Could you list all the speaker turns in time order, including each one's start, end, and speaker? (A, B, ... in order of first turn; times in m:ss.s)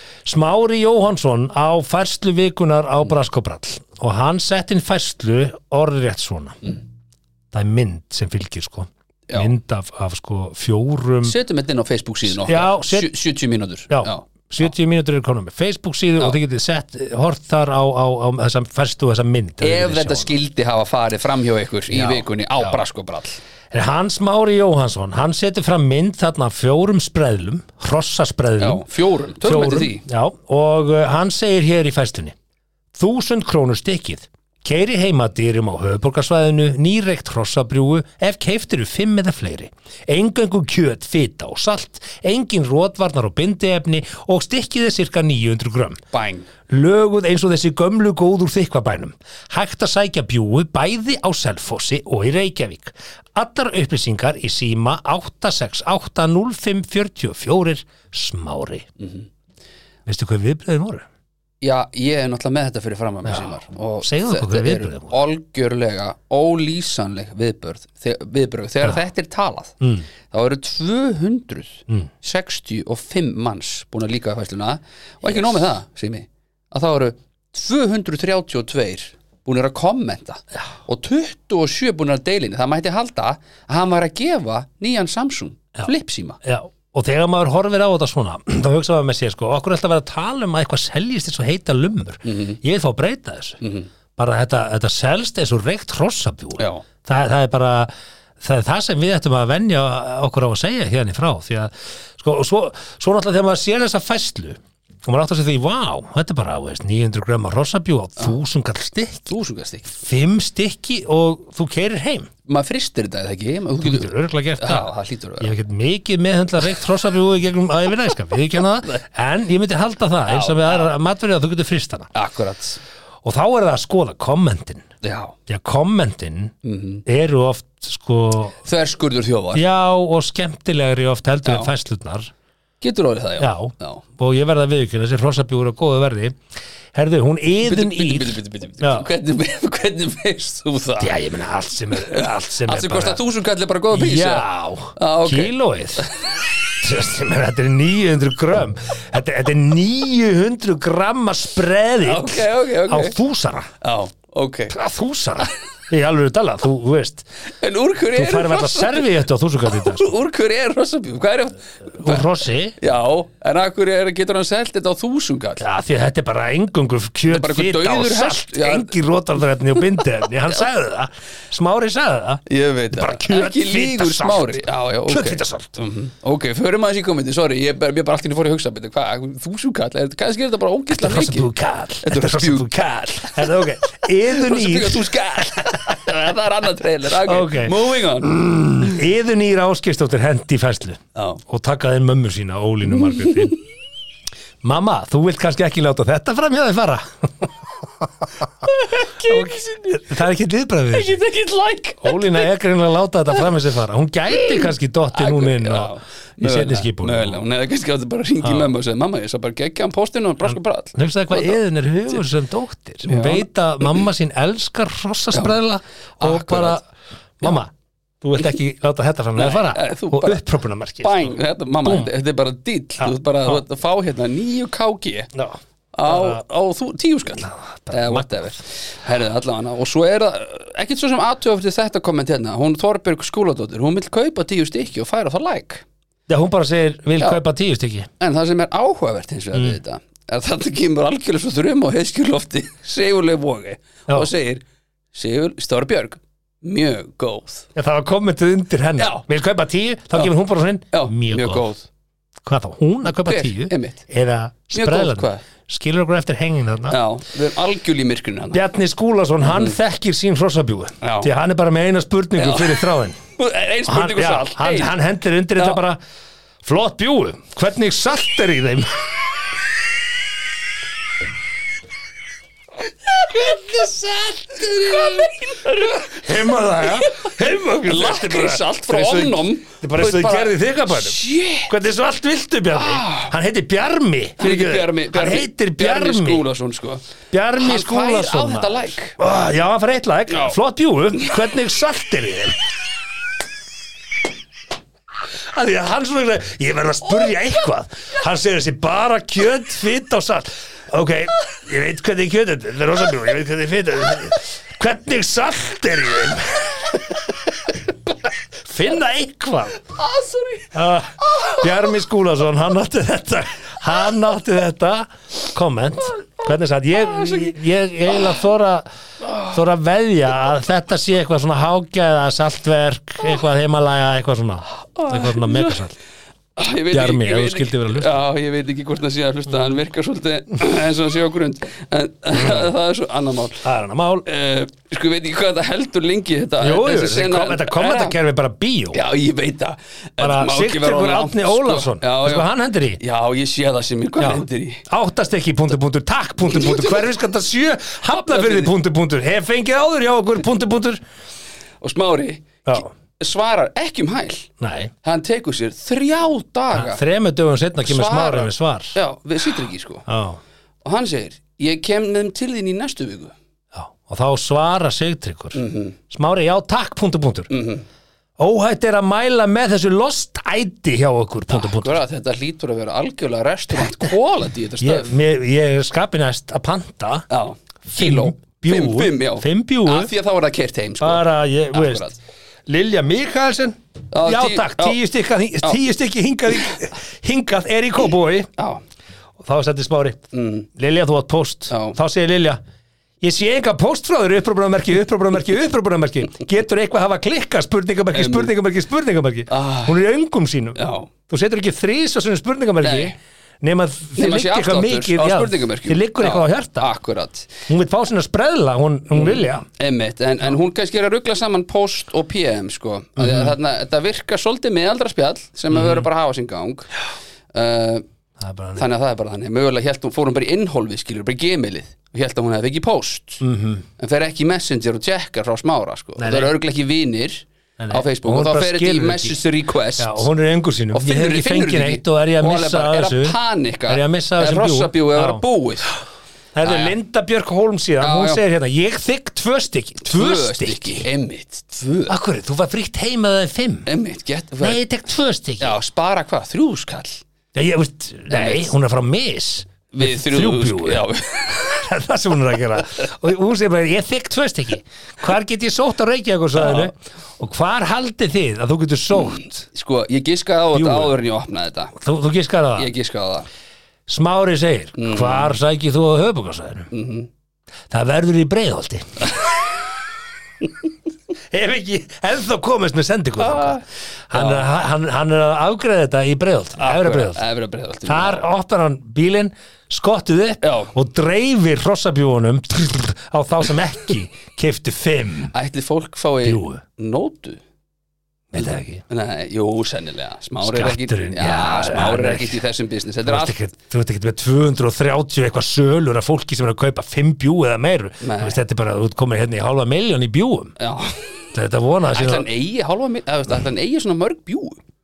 0:00.2-0:06.6 A
0:07.5-0:11.3 A
0:11.2-0:14.3 B
0:12.2-0:13.1 A
0:13.9-0:20.4 A
0:19.6-0:23.4 B
0:21.9-0:22.8 A
0:23.7-0:28.8 A
0:28.6-0:30.0 B
0:29.4-0:32.3 A
0:32.9-0:46.0 A
0:46.1-0:46.5 B
0:46.7-0:58.9 A
0:59.0-0:59.3 B
1:00.0-1:01.0 A
1:01.6-1:09.8 B
1:04.0-1:05.2 A
1:09.8-1:10.0 A
1:10.3-1:26.4 B
1:26.4-1:33.6 A
1:32.2-1:32.6 B
1:33.6-1:33.9 B
1:34.2-1:49.3 A
1:36.6-1:36.8 B
1:49.3-1:50.0 B
1:49.9-1:52.3 A
1:52.5-1:55.5 B
1:53.8-2:02.1 A
2:00.3-2:00.9 B
2:02.1-2:02.8 B
2:03.2-2:04.8 A
2:05.0-2:05.4 B
2:05.5-2:06.5 A
2:06.6-2:07.0 B
2:07.0-2:08.6 A
2:08.6-2:09.6 B
2:09.5-2:12.3 A
2:11.4-2:11.7 B
2:12.8-2:14.0 B
2:13.4-2:16.4 A
2:16.9-2:19.1 A
2:17.6-2:21.1 B
2:21.0-2:23.2 A
2:22.0-2:26.1 B
2:23.9-2:26.1 A
2:26.8-2:33.7 A
2:32.0-2:33.2 B
2:33.8-2:34.7 B
2:34.7-2:37.2 A
2:37.6-2:39.1 B
2:38.1-2:40.1 A
2:39.7-2:42.3 B
2:42.0-2:42.8 A
2:42.8-2:45.6 B
2:45.6-2:55.7 A
2:47.3-2:48.9 B
2:52.5-3:01.5 B
3:00.9-3:06.0 A
3:02.0-3:08.9 B
3:07.2-3:13.6 A
3:11.1-3:11.4 B
3:14.6-3:18.2 A
3:18.6-3:20.1 B
3:19.2-3:21.2 A
3:20.9-3:22.4 B
3:22.0-3:27.4 A
3:24.4-3:31.6 B
3:28.4-3:28.7 A
3:30.4-3:36.8 A
3:33.0-3:34.0 B
3:36.2-3:36.8 B
3:37.4-3:42.1 A
3:39.4-3:40.4 B
3:41.0-3:45.3 B
3:43.0-3:43.6 A
3:45.3-3:46.4 A
3:45.9-3:55.8 B
3:47.4-3:48.6 A
3:56.3-3:58.1 A
3:58.2-4:04.6 B
3:59.5-3:59.8 A
4:05.1-4:07.7 B
4:07.7-4:11.6 A
4:09.0-4:09.2 B
4:10.9-4:11.9 B
4:12.4-4:17.0 A
4:13.0-4:14.0 B
4:14.7-4:15.4 B
4:16.9-4:18.6 B
4:18.5-4:23.2 A
4:19.4-4:19.8 B
4:21.0-4:21.3 B
4:22.4-4:22.8 B
4:23.4-4:24.9 B
4:23.8-4:26.0 A
4:26.6-4:29.1 A
4:33.2-4:33.9 B
4:33.4-4:46.4 A
4:34.5-4:36.3 B
4:36.8-4:41.7 B
4:42.7-4:43.3 B
4:44.4-4:47.0 B
4:47.3-4:52.6 A
4:47.6-4:49.2 B
4:50.3-4:50.6 B
4:55.5-5:07.7 A
5:08.6-5:09.8 A
5:10.0-5:10.7 B
5:10.7-5:18.9 A
5:17.1-5:17.5 B
5:19.5-5:25.9 A
5:24.9-5:25.8 B
5:26.6-5:33.6 B
5:26.9-5:28.2 A
5:32.3-5:32.7 A
5:33.6-5:34.2 A
5:34.2-5:38.2 B
5:36.6-5:39.0 A
5:38.9-5:42.5 B
5:40.2-5:43.0 A
5:43.0-5:44.8 B
5:44.2-5:51.0 A
5:46.4-5:47.1 B
5:48.1-5:48.7 B
5:51.8-5:54.5 B
5:54.6-5:54.9 A
5:55.0-5:57.0 B
5:56.7-5:59.0 A
5:57.8-6:00.0 B
6:00.1-6:00.4 A
6:00.8-6:03.3 B
6:03.7-6:07.5 A
6:05.5-6:06.0 B
6:07.5-6:07.8 B
6:08.4-6:12.0 A
6:11.5-6:15.1 B
6:13.7-6:14.1 A
6:14.8-6:17.2 A
6:17.3-6:22.2 B
6:17.9-6:20.1 A
6:21.0-6:22.1 A
6:22.7-6:28.5 A
6:24.1-6:25.0 B
6:29.4-6:32.6 A
6:30.3-6:30.7 B
6:31.7-6:32.0 B
6:33.2-6:46.9 A
6:38.1-6:38.5 B
6:39.5-6:40.0 B
6:40.8-6:41.1 B
6:42.8-6:43.1 B
6:44.2-6:47.5 B
6:47.7-6:49.6 A
6:49.1-6:56.9 B
6:53.2-6:53.5 A
6:55.7-6:56.1 A
6:57.5-6:58.0 B
6:58.4-6:58.8 A
6:58.8-7:03.4 B
7:03.4-7:03.8 A
7:04.0-7:10.3 B
7:06.2-7:06.5 A
7:07.8-7:09.4 A
7:10.0-7:15.4 A
7:10.9-7:16.0 B
7:16.5-7:21.1 A
7:16.6-7:16.9 B
7:18.0-7:18.4 B
7:20.0-7:22.1 B
7:22.1-7:23.9 A
7:23.8-7:24.8 B
7:24.6-7:25.8 A
7:25.6-7:27.2 B
7:27.5-7:39.6 A
7:28.3-7:28.7 B
7:29.9-7:31.8 B
7:36.6-7:36.9 B
7:39.1-7:41.9 B
7:40.7-7:41.2 A
7:42.0-7:42.9 A
7:42.8-7:43.5 B
7:44.1-7:46.9 A
7:45.0-7:45.6 B
7:46.9-7:47.3 B
7:47.9-7:49.3 A
7:51.5-7:57.4 A
7:53.4-7:54.7 B
7:56.8-7:58.4 B
7:58.0-8:05.5 A
8:00.6-8:00.9 B
8:05.5-8:07.6 B
8:06.4-8:06.8 A
8:08.5-8:09.0 A
8:09.1-8:13.6 B
8:10.6-8:12.6 A
8:13.2-8:20.8 A
8:18.2-8:18.6 B
8:20.8-8:21.4 B
8:21.5-8:22.5 A
8:22.1-8:24.8 B